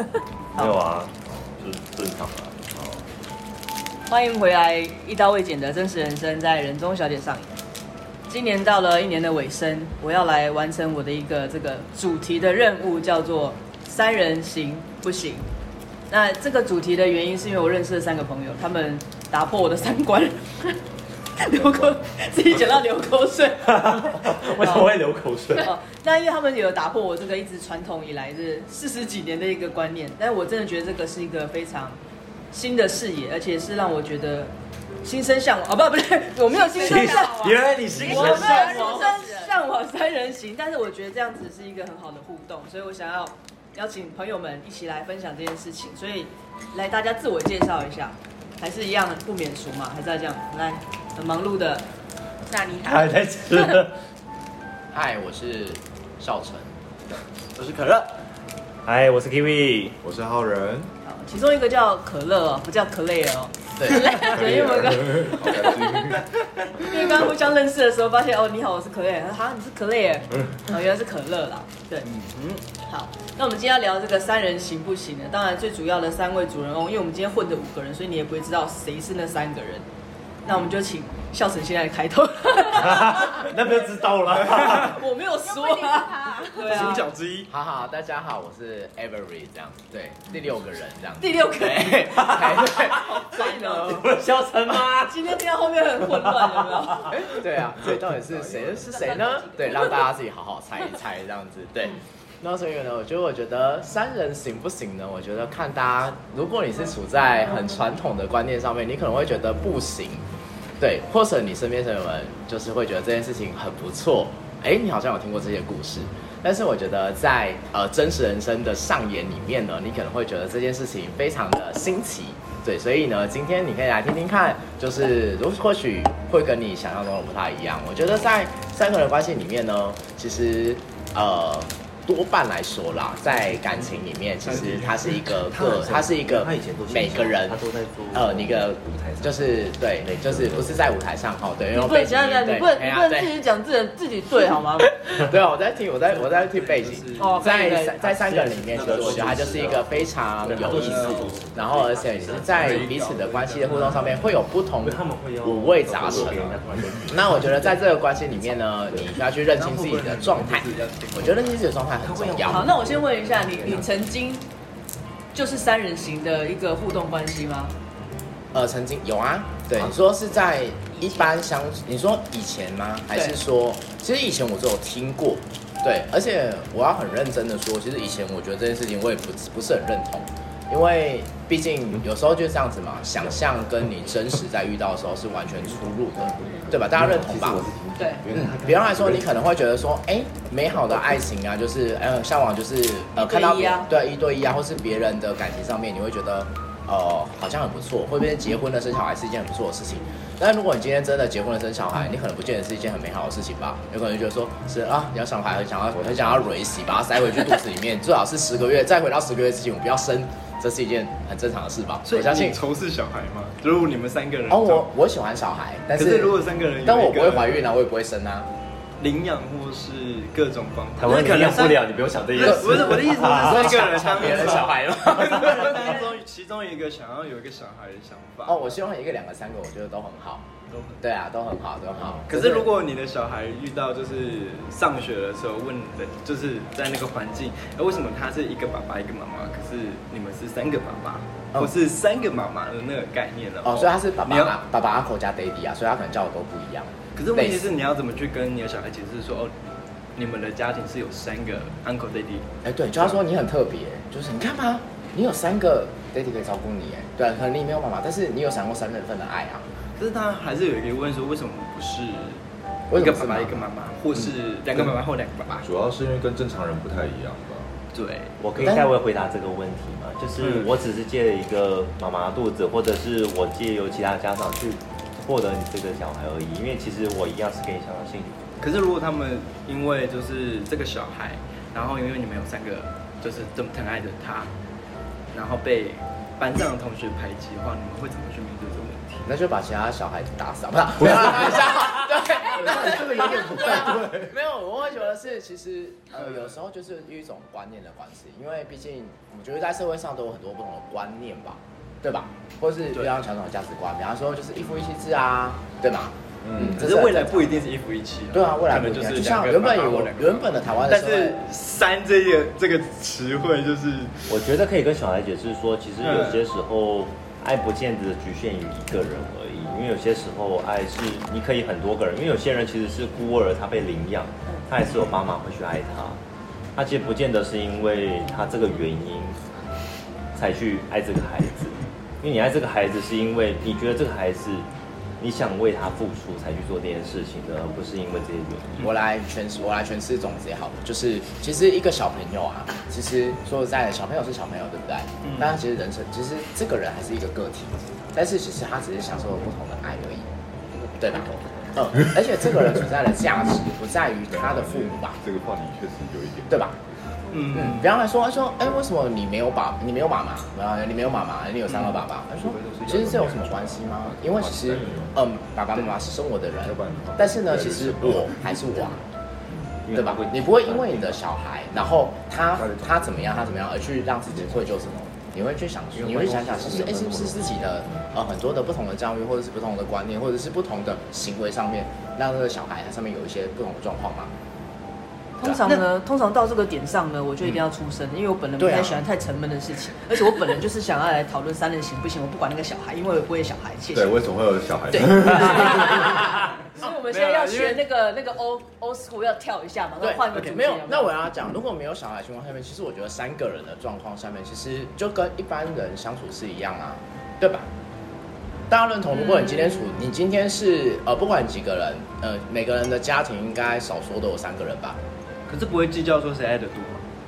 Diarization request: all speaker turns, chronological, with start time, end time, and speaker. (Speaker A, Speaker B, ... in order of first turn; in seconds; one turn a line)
Speaker A: 0.5-2.6
Speaker B: 1.3-1.6
Speaker B: 2.7-3.0
Speaker C: 4.1-7.5
Speaker C: 8.3-15.5
Speaker C: 16.1-20.8
Speaker C: 21.3-24.9
Speaker A: 23.6-25.7
Speaker C: 25.5-32.0
Speaker C: 32.5-51.9
Speaker D: 36.5-39.5
Speaker A: 36.7-39.0
Speaker D: 52.4-53.2
Speaker A: 52.8-54.0
Speaker E: 54.9-56.7
Speaker A: 57.6-58.1
Speaker A: 58.8-60.0
Speaker B: 60.0-60.9
Speaker C: 61.0-66.0
Speaker E: 63.8-64.5
Speaker B: 64.2-67.3
Speaker C: 66.8-72.1
Speaker F: 72.2-72.6
Speaker C: 72.8-79.8
Speaker C: 80.4-83.6
Speaker A: 82.8-85.0
Speaker C: 84.4-87.0
Speaker F: 84.4-84.9
Speaker D: 85.4-86.5
Speaker F: 86.6-87.5
Speaker E: 87.5-94.0
Speaker C: 91.2-94.0
Speaker A: 92.2-93.1
Speaker A: 93.8-95.4
Speaker C: 95.0-97.2
Speaker A: 96.0-97.1
Speaker E: 97.1-110.2
Speaker D: 99.0-99.8
Speaker C: 99.2-99.6
Speaker E: 110.8-137.6
Speaker F: 134.5-135.2
Speaker A: 135.4-140.9
Speaker E: 138.1-143.3
Speaker C: 141.7-144.9
Speaker E: 145.0-156.5
Speaker F: 146.1-147.7
Speaker C: 147.2-148.0
Speaker A: 148.0-153.1
Speaker F: 148.7-149.8
Speaker F: 150.5-154.1
Speaker A: 153.7-157.8
Speaker B: 156.1-157.0
Speaker E: 157.1-162.8
Speaker F: 159.5-161.5
Speaker A: 162.0-163.8
Speaker C: 162.4-164.4
Speaker C: 165.3-167.7
Speaker E: 168.5-187.7
Speaker A: 186.4-189.3
Speaker C: 187.9-188.2
Speaker E: 188.3-212.6
Speaker C: 193.2-193.9
Speaker F: 212.1-214.9
Speaker E: 214.5-218.5
Speaker F: 215.9-217.7
Speaker F: 219.0-228.6
Speaker A: 221.0-224.3
Speaker E: 222.4-226.1
Speaker E: 228.4-230.5
Speaker F: 230.7-231.0
Speaker E: 231.0-232.7
Speaker F: 232.3-244.6
Speaker E: 243.6-247.7
Speaker F: 247.2-249.5
Speaker F: 250.1-252.5
Speaker E: 252.6-259.6
Speaker F: 260.0-265.7
Speaker E: 262.9-263.7
Speaker B: 265.5-267.7
Speaker F: 267.9-268.3
Speaker A: 268.4-278.5
Speaker E: 268.6-268.9
Speaker F: 270.4-270.7
Speaker F: 278.6-284.5
Speaker F: 285.3-289.3
Speaker E: 289.3-307.7
Speaker B: 292.5-294.3
Speaker F: 296.2-296.5
Speaker B: 306.4-306.8
Speaker F: 306.6-314.1
Speaker E: 308.3-311.4
Speaker A: 314.3-326.2
Speaker F: 316.0-316.4
Speaker A: 326.8-329.4
Speaker A: 330.3-334.6
Speaker A: 335.2-338.9
Speaker E: 338.8-350.3
Speaker F: 345.2-345.6
Speaker E: 350.9-355.2
Speaker B: 354.3-356.8
Speaker E: 356.5-356.7
Speaker F: 357.3-357.9
Speaker E: 357.5-369.0
Speaker B: 362.4-365.2
Speaker B: 366.6-368.6
Speaker A: 369.8-371.2
Speaker E: 369.9-384.3
Speaker B: 372.6-373.5
Speaker B: 374.2-375.0
Speaker A: 375.9-377.9
Speaker C: 385.4-394.2
Speaker E: 388.6-389.0
Speaker B: 393.9-396.0
Speaker C: 394.9-401.1
Speaker F: 397.0-397.8
Speaker E: 400.0-407.7
Speaker E: 408.7-415.0
Speaker F: 415.5-417.0